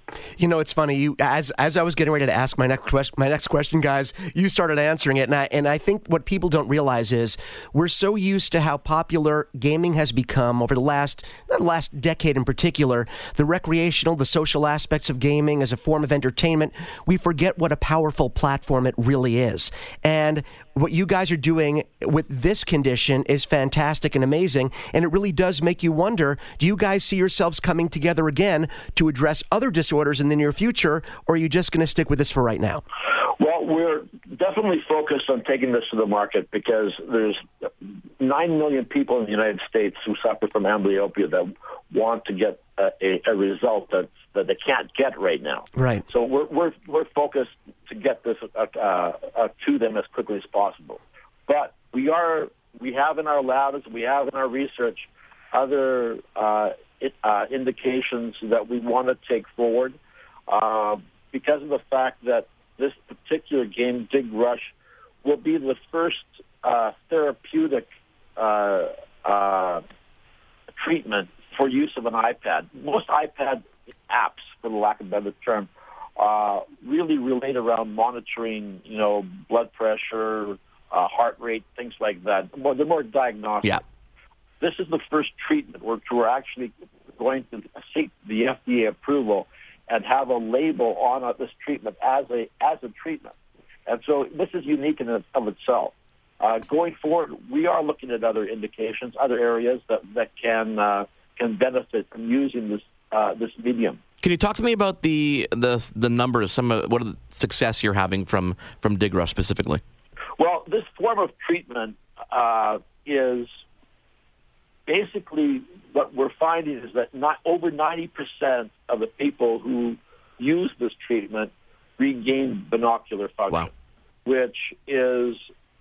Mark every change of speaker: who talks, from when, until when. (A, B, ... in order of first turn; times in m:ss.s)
0:00.4-0:32.8 A
0:33.4-1:04.7 B
0:45.8-0:46.0 A
1:05.2-1:09.8 B
1:10.8-1:23.8 B
1:24.6-1:33.3 B
1:33.9-1:44.0 B
1:44.2-1:49.8 C
1:50.4-1:53.6 B
1:54.9-2:03.7 B
2:04.2-2:05.5 B